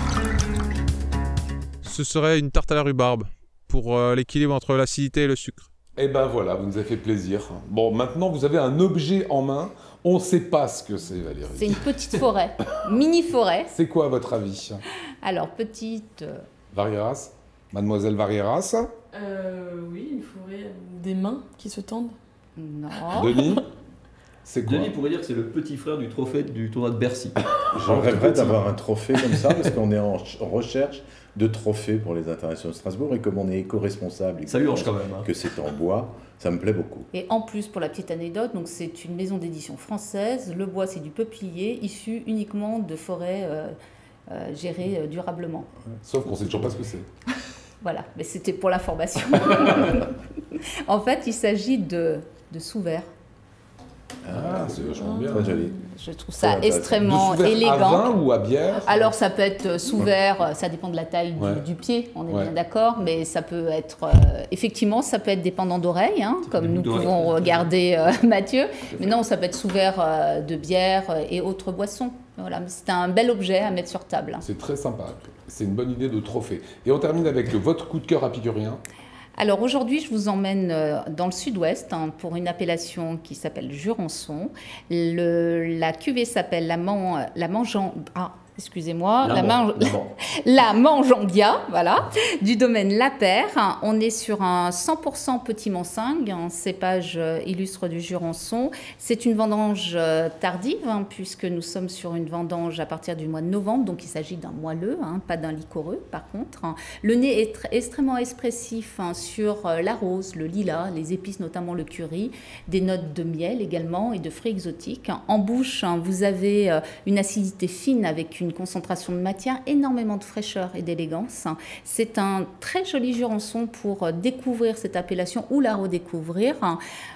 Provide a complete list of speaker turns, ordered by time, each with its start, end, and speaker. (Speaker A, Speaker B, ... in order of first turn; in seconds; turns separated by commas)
Speaker A: 1.8-5.7, Speaker B: 6.0-11.8, Speaker C: 11.5-13.7, Speaker B: 13.7-14.8, Speaker C: 15.2-16.4, Speaker B: 16.7-18.9, Speaker D: 19.1-22.2, Speaker C: 22.6-23.3, Speaker B: 23.1-23.6, Speaker B: 24.5-24.9, Speaker E: 24.7-27.4, Speaker F: 27.7-37.1, Speaker E: 27.9-28.6, Speaker E: 34.5-35.3, Speaker C: 37.1-43.7, Speaker C: 44.3-45.7, Speaker B: 46.0-47.1, Speaker C: 47.8-50.1, Speaker C: 50.9-53.0, Speaker F: 54.2-55.8, Speaker B: 54.3-55.5, Speaker D: 55.0-55.7, Speaker C: 55.7-58.2, Speaker F: 56.4-57.0, Speaker B: 57.0-59.0, Speaker C: 58.8-74.4, Speaker B: 61.4-61.6, Speaker E: 66.5-67.7, Speaker B: 74.4-78.8, Speaker C: 79.4-126.8, Speaker E: 89.2-90.1